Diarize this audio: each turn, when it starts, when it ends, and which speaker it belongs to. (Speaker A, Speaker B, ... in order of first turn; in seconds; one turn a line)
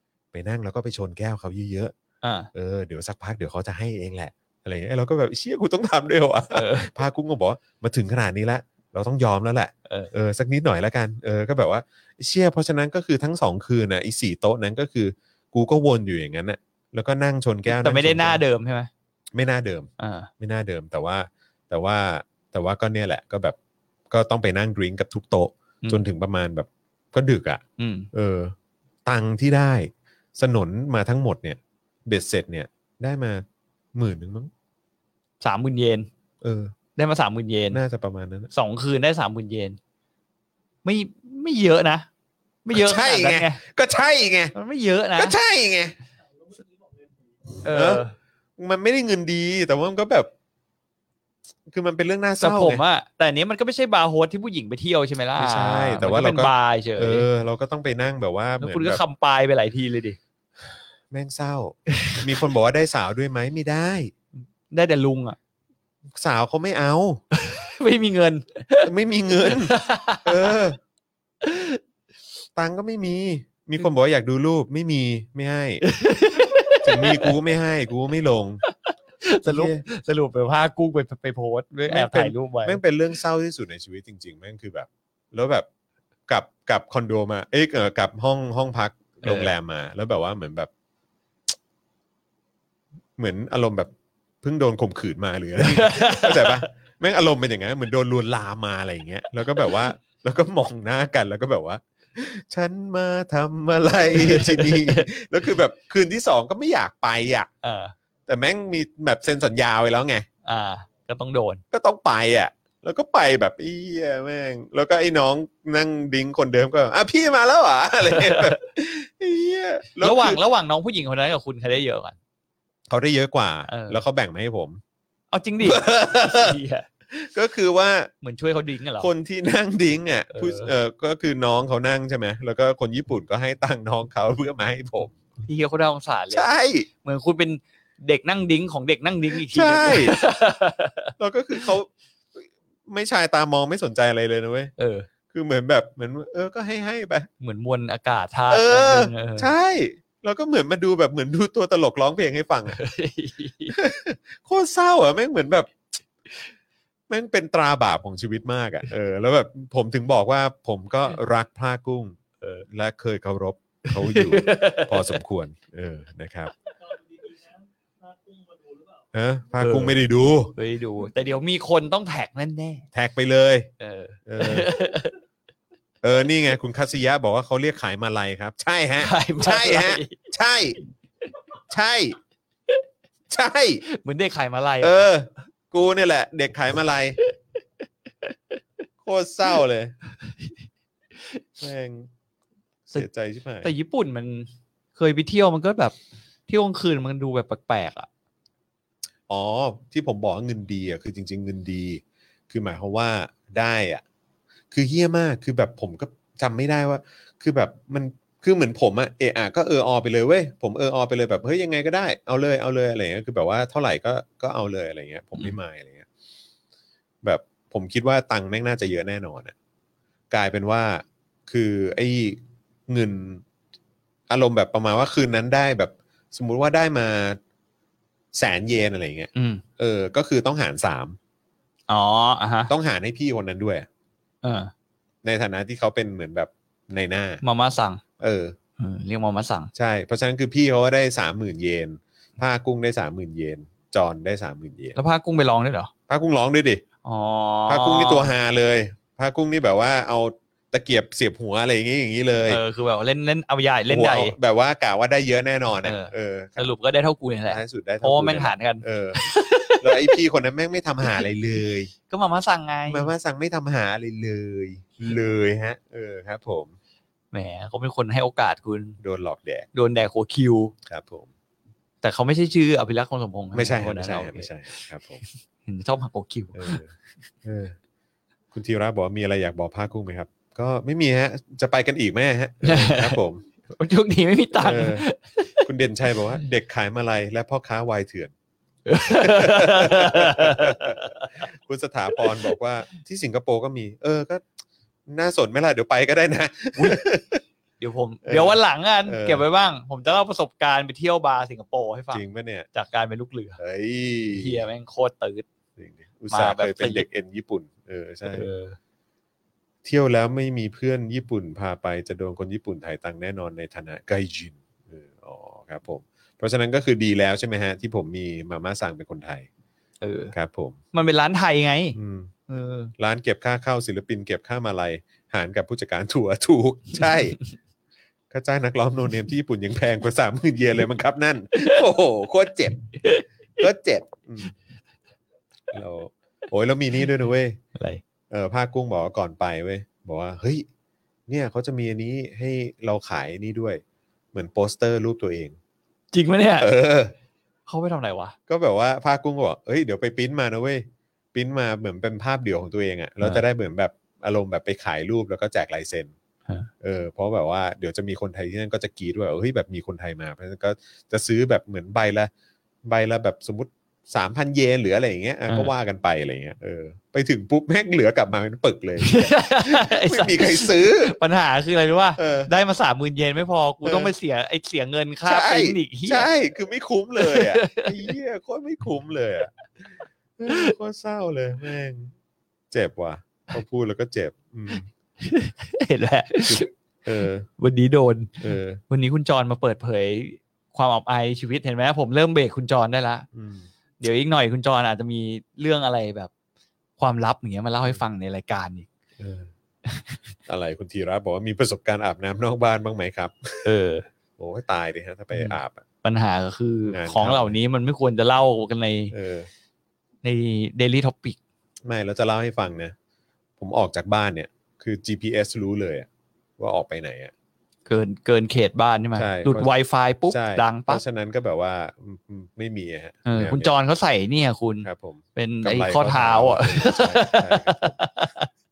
Speaker A: 0.3-1.9
Speaker B: 2.2-2.5
Speaker A: 2.5-18.4
Speaker B: 6.5-6.9
Speaker B: 17.6-18.9
Speaker A: 19.3-23.6
Speaker B: 20.0-20.3
Speaker A: 24.1-27.6
Speaker B: 27.8-28.1
Speaker A: 28.1-28.5
Speaker A: 29.0-34.5
Speaker B: 35.4-36.1
Speaker A: 36.4-36.7
Speaker B: 37.0-37.8
Speaker A: 37.7-38.5
Speaker B: 38.5-39.8
Speaker B: 40.8-42.1
Speaker B: 42.6-43.6
Speaker A: 42.7-44.5
Speaker B: 44.5-45.3
Speaker A: 45.1-46.0
Speaker C: 46.2-47.5
Speaker A: 47.6-48.0
Speaker B: 47.6-48.1
Speaker A: 48.6-50.3
Speaker A: 51.7-52.8
Speaker B: 52.4-57.3
Speaker A: 55.4-59.0
Speaker B: 58.6-60.2
Speaker A: 60.6-64.1
Speaker B: 64.7-65.4
Speaker A: 66.1-67.2
Speaker B: 67.4-70.5
Speaker A: 68.8-69.7
Speaker A: 70.2-70.8
Speaker B: 71.4-71.8
Speaker A: 72.5-75.8
Speaker B: 75.8-77.4
Speaker A: 76.8-78.6
Speaker B: 79.2-82.8
Speaker A: 79.4-79.8
Speaker A: 81.9-85.7
Speaker A: 86.3-90.7
Speaker B: 89.2-89.5
Speaker A: 93.2-93.9
Speaker A: 94.4-107.5
Speaker B: 95.6-96.6
Speaker B: 104.1-105.1
Speaker B: 107.6-107.9
Speaker A: 108.3-110.3
Speaker B: 110.4-111.6
Speaker A: 111.7-120.4
Speaker B: 118.0-118.6
Speaker B: 120.0-122.2
Speaker A: 122.9-124.8
Speaker B: 123.7-124.0
Speaker B: 125.3-126.8
Speaker A: 125.6-126.6
Speaker A: 127.1-128.1
Speaker B: 128.2-129.1
Speaker A: 129.0-135.2
Speaker B: 130.3-130.7
Speaker B: 135.4-136.5
Speaker A: 136.3-136.9
Speaker B: 137.0-141.7
Speaker A: 139.5-140.2
Speaker A: 141.2-144.7
Speaker B: 144.8-145.1
Speaker A: 145.3-147.3
Speaker B: 147.4-149.5
Speaker A: 148.5-152.8
Speaker B: 152.7-153.8
Speaker A: 153.7-155.7
Speaker A: 157.1-166.5
Speaker B: 163.9-165.2
Speaker C: 166.7-169.1
Speaker A: 169.1-170.5
Speaker B: 169.6-170.0
Speaker B: 170.5-172.8
Speaker A: 172.9-173.7
Speaker B: 173.8-175.2
Speaker A: 174.3-174.7
Speaker A: 176.0-180.8
Speaker B: 179.0-180.2
Speaker A: 181.7-182.2
Speaker A: 183.3-183.8
Speaker B: 183.9-185.1
Speaker A: 184.8-187.2
Speaker B: 188.2-188.6
Speaker A: 189.0-189.9
Speaker A: 191.6-192.1
Speaker A: 192.9-193.7
Speaker B: 193.6-195.9
Speaker B: 196.5-198.1
Speaker A: 199.3-204.0
Speaker A: 204.7-216.1
Speaker A: 217.2-219.5
Speaker A: 220.3-223.4
Speaker A: 224.3-227.4
Speaker A: 228.3-231.2
Speaker B: 229.3-229.6
Speaker B: 231.9-232.7
Speaker A: 232.7-233.8
Speaker B: 234.4-234.7
Speaker A: 235.2-237.4
Speaker B: 237.4-238.0
Speaker A: 238.2-238.5
Speaker B: 238.8-239.7
Speaker A: 239.7-245.0
Speaker B: 244.9-245.9
Speaker A: 246.1-246.8
Speaker B: 247.0-248.3
Speaker A: 247.7-252.6
Speaker B: 252.5-254.3
Speaker A: 253.9-256.7
Speaker B: 255.8-260.2
Speaker A: 257.5-259.2
Speaker A: 259.8-261.9
Speaker B: 262.1-263.1
Speaker A: 262.9-266.7
Speaker B: 267.3-269.0
Speaker A: 269.0-269.7
Speaker B: 269.7-270.7
Speaker A: 270.9-271.3
Speaker B: 272.0-274.5
Speaker A: 273.5-275.2
Speaker B: 275.6-276.8
Speaker A: 276.5-276.9
Speaker A: 277.4-277.8
Speaker A: 278.5-283.4
Speaker B: 282.6-285.7
Speaker A: 284.6-285.1
Speaker A: 285.6-288.3
Speaker B: 288.9-291.4
Speaker A: 289.0-294.4
Speaker A: 295.1-297.4
Speaker B: 296.8-297.1
Speaker B: 297.8-303.6
Speaker A: 298.2-299.4
Speaker A: 302.1-302.7
Speaker A: 303.6-304.6
Speaker B: 304.3-305.4
Speaker A: 305.8-308.5
Speaker B: 306.3-307.1
Speaker B: 308.3-308.8
Speaker A: 309.8-319.5
Speaker B: 320.0-320.3
Speaker A: 320.3-320.8
Speaker B: 320.9-321.9
Speaker A: 321.9-322.3
Speaker B: 322.5-322.9
Speaker A: 323.0-327.4
Speaker A: 328.3-332.9
Speaker A: 333.6-334.5
Speaker A: 335.7-337.6
Speaker B: 337.8-338.0
Speaker A: 338.3-340.6
Speaker A: 341.3-343.8
Speaker A: 344.3-345.6
Speaker B: 346.1-346.7
Speaker A: 346.6-347.1
Speaker B: 347.7-348.4
Speaker A: 348.5-356.1
Speaker A: 356.8-362.3
Speaker A: 362.8-371.1
Speaker B: 369.0-376.3
Speaker A: 372.2-372.5
Speaker A: 373.8-374.1
Speaker A: 375.2-382.1
Speaker B: 377.2-377.9
Speaker B: 380.5-380.7
Speaker A: 382.7-384.9
Speaker B: 385.2-386.7
Speaker A: 386.4-387.5
Speaker B: 387.6-393.2
Speaker A: 388.4-388.8
Speaker A: 393.3-393.7
Speaker B: 394.0-396.3
Speaker B: 397.0-398.9
Speaker A: 399.2-399.5
Speaker B: 399.9-400.1
Speaker A: 400.5-403.7
Speaker B: 403.6-404.1
Speaker A: 404.4-405.8
Speaker B: 405.3-409.1
Speaker A: 406.9-407.5
Speaker A: 409.1-409.5
Speaker B: 410.2-411.4
Speaker A: 411.8-412.9
Speaker A: 413.6-416.1
Speaker A: 416.6-417.3
Speaker B: 417.9-421.0
Speaker A: 419.1-419.7
Speaker A: 420.3-423.7
Speaker B: 423.2-428.5
Speaker A: 424.8-427.8